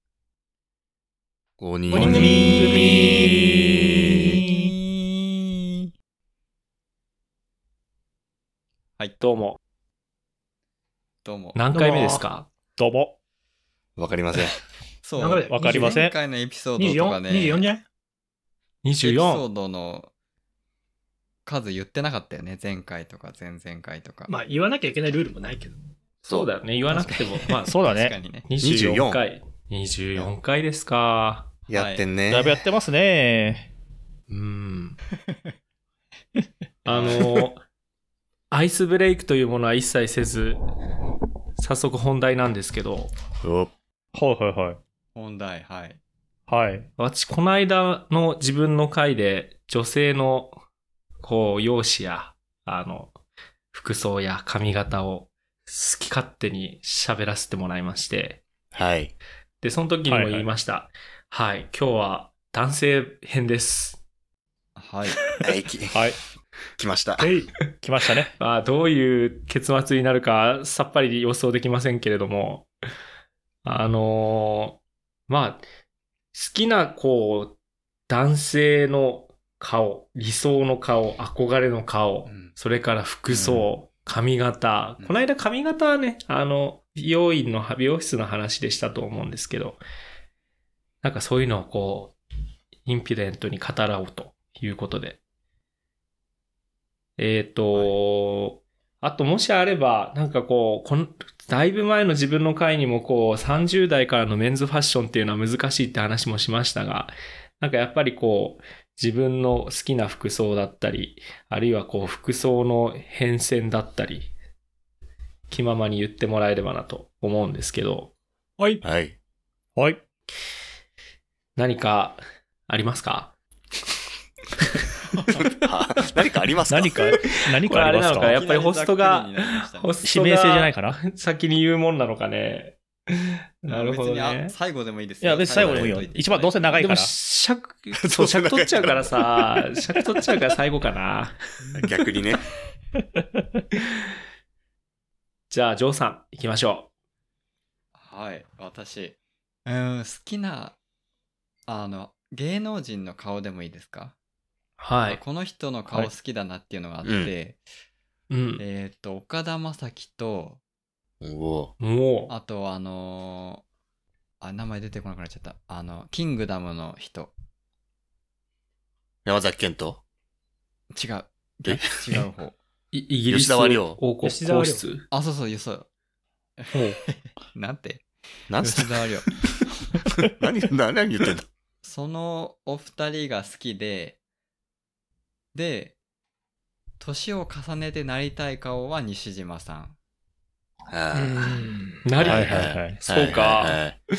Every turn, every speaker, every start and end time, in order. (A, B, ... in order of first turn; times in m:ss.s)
0:01.6-0:04.4 A
0:01.9-0:03.3 B
0:04.4-0:05.7 C
0:09.2-0:09.6 D
0:11.2-0:11.6 C
0:11.6-0:12.5 D
0:11.7-0:12.2 B
0:11.8-0:12.1 E
0:12.7-0:13.2 E
0:14.0-0:14.6 A
0:15.0-0:17.6 C
0:15.2-0:16.1 B
0:15.5-0:16.2 E
0:16.8-0:17.8 B
0:18.8-0:19.4 D
0:19.0-0:20.1 C
0:21.4-0:24.3 C
0:24.3-0:25.8 B
0:26.3-0:27.8 D
0:26.9-0:28.5 C
0:27.6-0:28.1 E
0:28.5-0:31.5 D
0:28.6-0:29.2 A
0:31.7-0:32.7 A
0:31.7-0:32.1 C
0:32.3-0:33.7 E
0:34.3-0:35.0 D
0:36.8-0:37.6 D
0:36.9-0:37.2 C
0:38.5-0:40.6 D
0:41.6-0:43.1 D
0:43.4-0:43.7 A
0:44.1-0:44.8 E
0:45.1-0:46.0 C
0:46.5-0:46.9 E
0:47.0-0:50.6 D
0:51.2-0:53.2 D
0:53.7-0:58.4 D
0:58.7-0:59.1 A
0:59.6-1:04.0 D
1:00.0-1:00.5 E
1:04.8-1:05.3 C
1:05.4-1:05.9 A
1:05.9-1:06.2 E
1:06.8-1:07.3 A
1:07.2-1:07.5 B
1:07.8-1:08.3 E
1:08.2-1:12.7 D
1:13.6-1:15.6 D
1:16.3-1:17.6 D
1:18.1-1:29.8 D
1:22.3-1:22.6 C
1:23.3-1:23.6 A
1:31.0-1:32.2 D
1:32.8-1:35.2 D
1:37.2-1:54.3 D
1:55.5-1:58.1 D
1:58.8-1:59.2 A
1:59.8-2:00.0 E
2:01.6-2:03.3 D
2:05.3-2:07.2 A
2:06.7-2:08.4 E
2:07.2-2:14.5 D
2:08.2-2:10.0 C
2:10.0-2:11.0 E
2:13.7-2:16.8 C
2:15.2-2:17.1 E
2:15.5-2:16.0 A
2:16.8-2:21.7 D
2:18.0-2:19.6 A
2:21.8-2:22.4 A
2:25.5-2:26.9 D
2:27.9-2:30.8 C
2:31.7-2:34.1 C
2:34.8-2:35.2 D
2:35.0-2:37.6 C
2:37.0-2:37.3 A
2:38.3-2:38.6 D
2:38.6-2:40.6 C
2:41.2-2:41.7 A
2:41.8-2:42.3 D
2:42.3-2:43.6 C
2:44.4-2:47.3 C
2:49.2-2:50.0 A
2:50.9-2:52.6 C
2:51.6-2:52.2 A
2:52.9-2:55.0 D
2:53.3-2:54.0 A
2:54.2-2:54.8 B
2:55.1-2:55.9 C
2:56.6-2:58.0 C
2:56.7-2:57.0 E
2:58.5-2:59.1 A
2:58.6-2:59.4 C
3:00.2-3:01.5 A
3:01.8-3:04.2 C
3:05.5-3:05.9 C
3:07.0-3:10.0 C
3:10.9-3:11.6 A
3:11.1-3:12.1 B
3:12.0-3:13.9 D
3:12.2-3:14.0 A
3:12.2-3:13.0 E